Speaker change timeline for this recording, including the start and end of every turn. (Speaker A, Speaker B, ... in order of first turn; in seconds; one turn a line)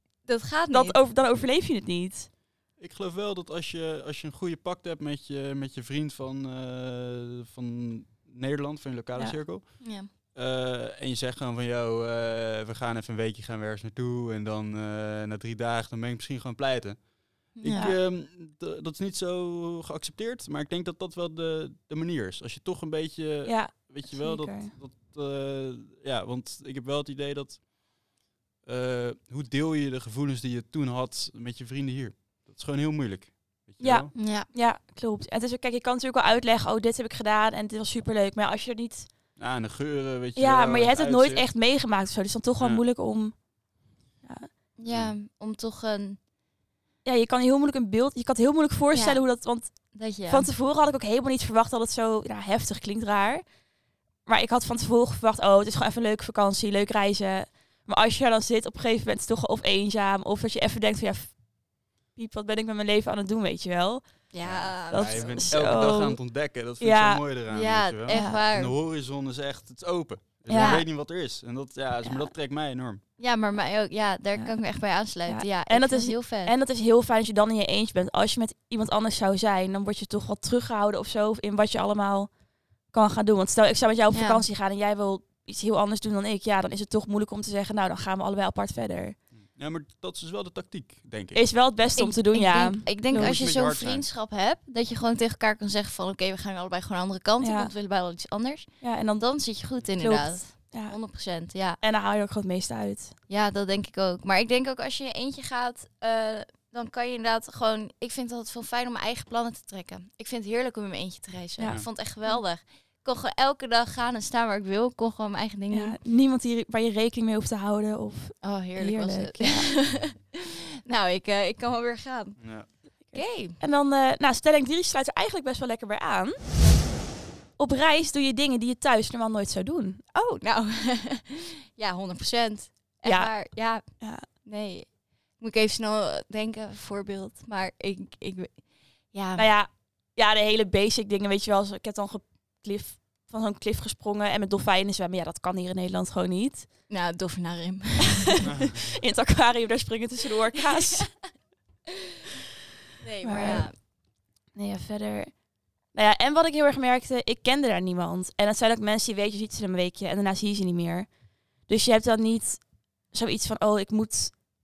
Speaker A: 0.3-1.0
Speaker B: 0.7-2.3
Speaker C: 2.8-27.7
Speaker A: 9.8-10.1
Speaker A: 17.6-17.9
Speaker B: 17.7-18.0
Speaker B: 23.4-24.8
Speaker C: 28.6-34.1
Speaker B: 33.8-39.1
Speaker A: 34.1-34.5
Speaker C: 39.4-41.5
Speaker B: 40.4-43.4
Speaker B: 44.2-44.5
Speaker A: 44.8-46.2
Speaker C: 44.9-45.1
Speaker B: 47.0-49.7
Speaker A: 48.9-49.2
Speaker A: 49.9-50.5
Speaker B: 50.3-53.4
Speaker B: 54.2-61.4
Speaker B: 62.1-64.1
Speaker A: 64.3-65.5
Speaker C: 64.4-73.0
Speaker B: 64.9-66.2
Speaker B: 66.8-67.2
Speaker A: 67.5-68.8
Speaker B: 68.1-68.4
Speaker B: 70.5-70.8
Speaker A: 70.5-70.8
Speaker A: 73.2-76.5
Speaker B: 75.3-82.3
Speaker B: 82.9-89.2
Speaker A: 84.1-84.4
Speaker C: 89.4-91.4
Speaker B: 91.3-93.4
Speaker A: 92.0-101.8
Speaker C: 93.1-94.0
Speaker B: 97.4-97.7
Speaker B: 98.8-99.2
Speaker B: 100.0-101.0
Speaker B: 101.8-103.1
Speaker A: 103.3-116.0
Speaker B: 111.6-112.4
Speaker B: 115.7-119.7
Speaker A: 118.4-123.6
Speaker C: 122.4-122.7
Speaker B: 123.1-126.4
Speaker B: 127.6-130.0
Speaker A: 130.1-138.6
Speaker B: 133.0-133.3
Speaker B: 133.9-134.2
Speaker A: 139.1-139.5
Speaker B: 139.4-146.7
Speaker A: 146.9-148.4
Speaker B: 148.1-151.1
Speaker C: 148.4-148.8
Speaker A: 153.0-153.8
Speaker B: 153.2-153.7
Speaker B: 154.5-155.4
Speaker B: 155.9-161.1
Speaker B: 161.7-164.4